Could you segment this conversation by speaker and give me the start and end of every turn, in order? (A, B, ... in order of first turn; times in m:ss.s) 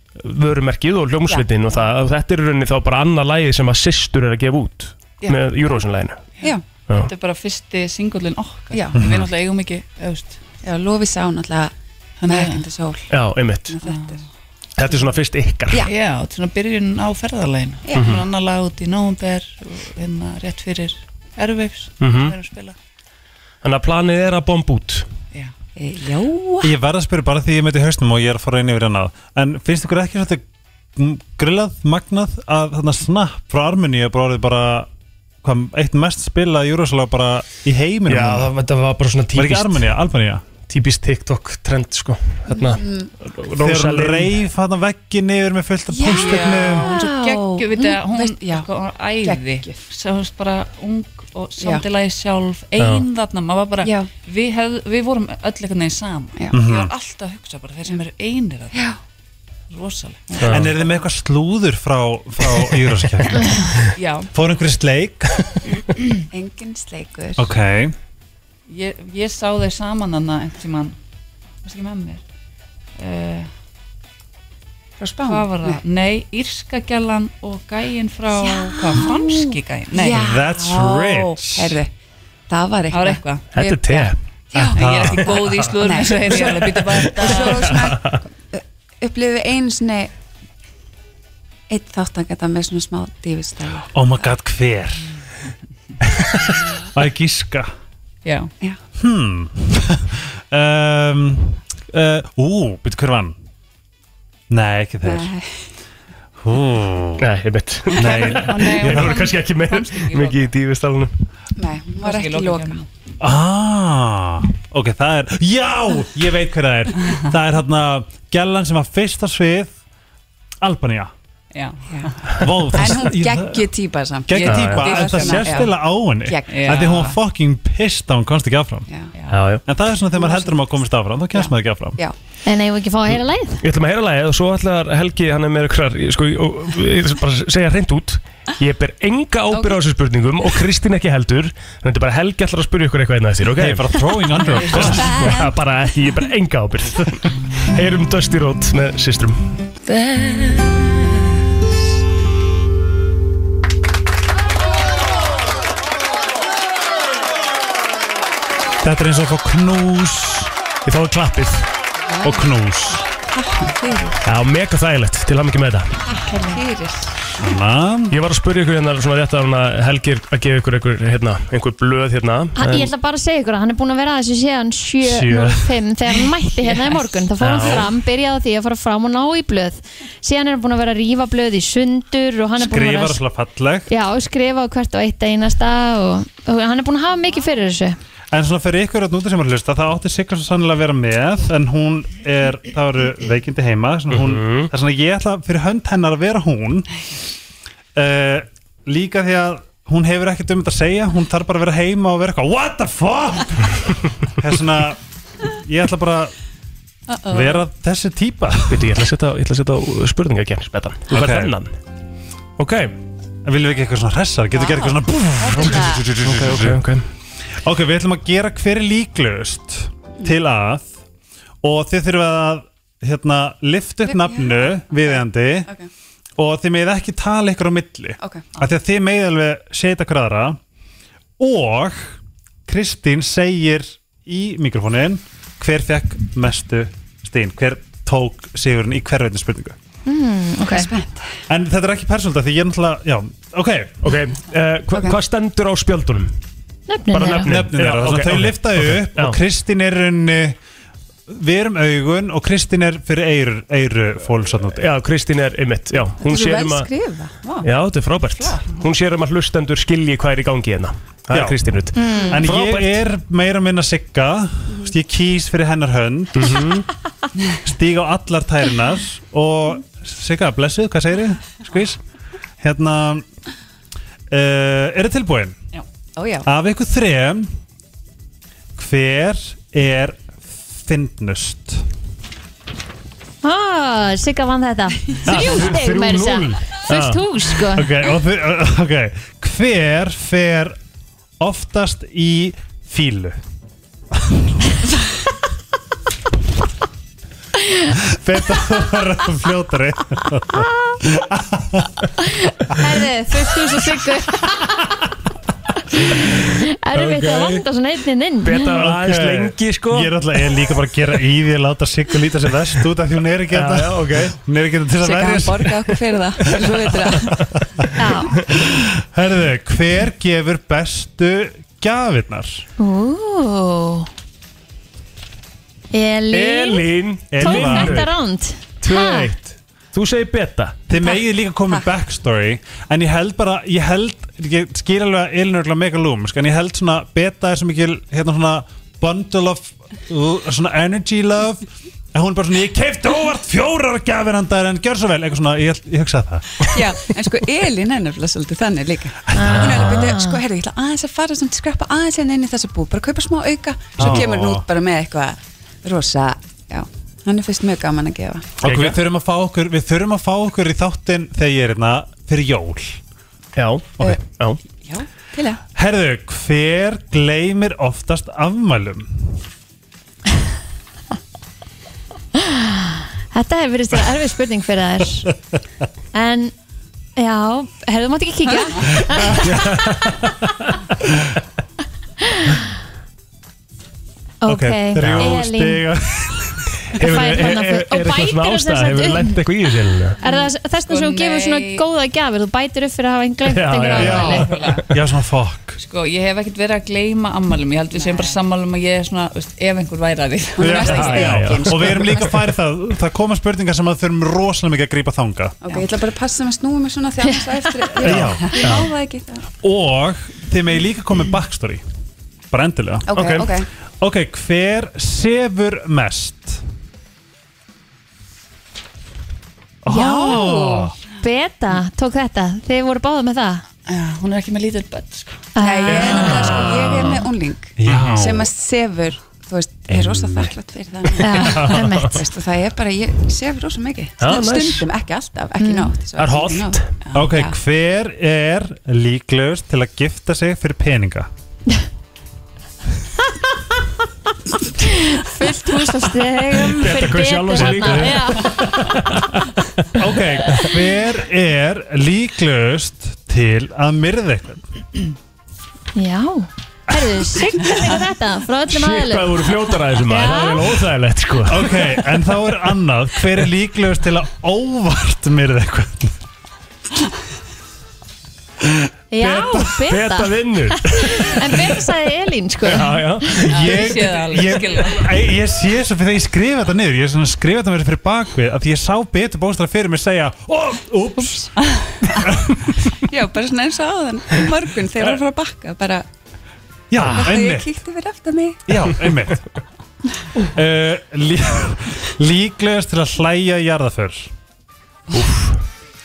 0:00.2-0:06.2 A
0:01.3-0:01.8 B
0:06.4-0:10.4 C
0:08.7-0:09.1 B
0:09.0-0:09.3 D
0:10.6-0:11.7 B
0:12.2-0:12.7 C
0:12.2-0:13.1 B
0:13.1-0:13.8 A
0:13.7-0:14.2 B
0:13.9-0:14.2 C
0:14.8-0:15.9 A
0:15.8-0:22.8 C
0:17.9-0:18.2 B
0:17.9-0:18.3 A
0:22.0-0:22.4 A
0:23.6-0:25.1 A
0:25.8-0:26.7 B
0:26.6-0:30.4 D
0:31.0-0:34.9 D
0:35.4-0:38.5 D
0:38.1-0:40.0 A
0:39.3-0:40.4 D
0:40.7-0:44.4 A
0:42.5-0:43.1 B
0:43.6-0:47.0 D
0:45.9-0:48.7 B
0:46.0-0:58.8 C
0:49.2-0:49.8 B
0:51.6-0:51.9 B
0:52.8-0:53.0 A
0:53.8-0:54.1 B
0:56.5-0:56.9 D
0:58.7-0:59.0 B
0:59.7-1:00.7 C
1:00.4-1:00.7 A
1:00.5-1:03.8 D
1:04.0-1:04.3 C
1:04.3-1:05.3 D
1:06.3-1:07.5 B
1:07.4-1:07.9 D
1:08.7-1:11.0 C
1:11.6-1:12.2 C
1:13.0-1:13.5 C
1:15.0-1:15.8 B
1:15.3-1:20.2 C
1:18.3-1:21.9 B
1:20.0-1:21.8 D
1:22.5-1:30.1 B
1:22.9-1:23.5 C
1:23.5-1:24.2 A
1:24.6-1:27.7 C
1:24.8-1:25.6 D
1:27.1-1:28.2 A
1:31.7-1:33.9 B
1:33.9-1:35.0 D
1:36.1-1:37.7 D
1:38.2-1:38.5 C
1:39.0-1:43.4 D
1:44.5-1:45.3 D
1:45.0-1:45.6 B
1:46.4-1:47.2 D
1:47.2-1:51.1 A
1:48.0-1:49.3 D
1:48.0-1:50.5 C
1:51.6-1:52.8 B
1:52.0-1:52.9 C
1:53.2-1:59.7 D
2:00.6-2:01.1 D
2:01.5-2:02.1 C
2:01.9-2:02.1 B
2:02.4-2:03.7 D
2:02.7-2:07.1 B
2:04.3-2:08.9 D
2:04.4-2:05.7 C
2:04.4-2:05.0 A
2:06.5-2:07.1 C
2:09.1-2:09.4 C
2:09.3-2:09.6 A
2:09.7-2:12.0 D
2:10.1-2:10.6 B
2:11.3-2:12.2 B
2:12.5-2:13.6 E
2:13.6-2:29.4 A
2:19.5-2:19.8 B
2:23.6-2:25.4 D
2:38.8-2:40.5 D
2:40.8-2:41.7 A
2:42.1-2:42.5 B
2:42.2-2:43.1 D
2:43.2-2:44.2 B
2:44.2-2:45.9 A
2:46.1-2:47.2 B
2:47.4-2:48.2 D
2:48.1-2:52.9 A
2:52.6-3:03.2 E
2:55.0-2:55.6 A
2:56.6-2:57.0 C
2:57.4-2:57.9 A
3:02.6-3:03.9 D
3:03.9-3:08.0 E
3:08.3-3:16.9 D
3:14.1-3:14.7 A
3:18.0-3:26.3 D
3:27.1-3:27.6 B
3:27.3-3:28.9 D
3:28.7-3:31.8 A
3:31.1-3:31.5 D
3:32.6-3:33.0 A
3:33.4-3:36.8 D
3:34.5-3:36.1 B
3:35.6-3:37.1 A
3:37.6-3:40.9 D
3:41.6-3:45.7 D
3:44.0-3:45.9 B
3:46.4-3:50.6 D
3:48.2-3:48.6 B
3:51.4-3:59.8 D
4:00.1-4:00.9 E
4:00.7-4:01.3 B
4:01.5-4:04.0 D
4:04.0-4:06.4 A
4:06.9-4:07.6 E
4:07.1-4:09.4 A
4:07.4-4:10.6 D
4:11.3-4:14.8 D
4:14.7-4:16.9 A
4:16.2-4:17.7 B
4:17.6-4:23.0 A
4:18.3-4:18.6 B
4:21.3-4:21.6 D
4:22.0-4:22.4 E
4:22.3-4:26.7 D
4:26.4-4:26.9 A
4:27.6-4:32.0 D
4:32.6-4:33.2 D
4:34.3-4:35.6 D
4:36.2-4:36.5 B
4:36.5-4:37.5 D
4:38.8-4:41.8 D
4:43.4-4:47.9 E
4:45.3-4:47.2 A
4:47.7-4:50.8 D
4:51.4-4:53.4 D
4:57.6-4:57.9 E
4:57.9-5:02.0 D
5:00.5-5:01.0 E
5:02.2-5:04.9 E
5:06.0-5:08.8 E
5:06.9-5:07.6 A
5:08.4-5:10.2 A
5:08.8-5:17.9 D
5:13.5-5:14.4 A
5:15.0-5:17.4 B
5:18.0-5:18.4 E
5:18.5-5:22.7 D
5:22.8-5:24.1 E
5:25.9-5:26.9 E
5:26.3-5:28.1 A
5:27.3-5:28.0 D
5:27.4-5:29.3 E
5:28.8-5:30.8 A
5:30.9-5:46.8 D
5:46.7-5:58.5 B
5:49.3-5:49.9 D
5:49.4-5:50.4 E
5:49.4-5:50.1 A
5:54.0-5:54.7 D
5:58.6-6:03.0 D
5:58.6-5:59.0 A
6:03.6-6:04.6 A
6:04.8-6:05.6 B
6:05.8-6:09.3 D
6:12.4-6:15.3 E
6:16.1-6:16.5 E
6:17.2-6:19.5 E
6:19.2-6:20.2 D
6:19.5-6:20.2 A
6:22.3-6:22.6 E
6:24.4-6:25.8 E
6:24.5-6:26.7 D
6:25.0-6:25.3 A
6:26.9-6:30.2 A
6:27.0-6:29.4 E
6:30.2-6:34.5 E
6:30.3-6:31.8 C
6:33.5-6:34.8 A
6:34.0-6:35.8 D
6:34.2-6:34.9 C
6:35.8-6:41.1 C
6:37.9-6:38.4 B
6:40.6-6:42.4 B
6:40.6-6:45.6 D
6:40.8-6:42.3 A
6:45.6-6:49.4 B
6:48.0-6:48.7 D
6:48.1-6:48.9 A
6:49.6-6:51.8 D
6:52.5-6:53.4 D
6:53.1-6:53.7 B
6:53.1-6:53.5 A
6:54.0-6:56.6 D
6:59.8-7:00.9 D
6:59.9-7:03.6 E
7:03.9-7:05.5 C
7:05.6-7:07.2 E
7:05.6-7:17.6 B
7:06.0-7:06.9 A
7:07.8-7:08.5 D
7:07.9-7:08.2 A
7:09.9-7:10.5 D
7:11.2-7:12.2 E
7:11.3-7:12.2 A
7:14.2-7:14.9 A
7:15.6-7:16.0 E
7:16.2-7:16.9 A
7:17.1-7:21.3 D
7:24.8-7:28.6 E
7:26.6-7:29.5 A
7:26.8-7:29.0 D
7:29.9-7:34.6 D
7:36.0-7:39.5 E
7:38.7-7:41.8 A
7:40.0-7:40.7 E
7:41.5-7:46.2 D
7:49.1-7:53.5 E
7:49.2-7:49.8 D
7:49.8-7:51.4 A
7:52.7-7:53.8 A
7:53.5-8:01.6 D
7:53.5-7:55.1 C
8:02.2-8:02.7 D
8:03.0-8:06.1 B
8:06.9-8:07.8 D
8:07.0-8:08.6 B
8:08.7-8:09.5 D
8:10.5-8:14.3 D
8:15.1-8:15.6 A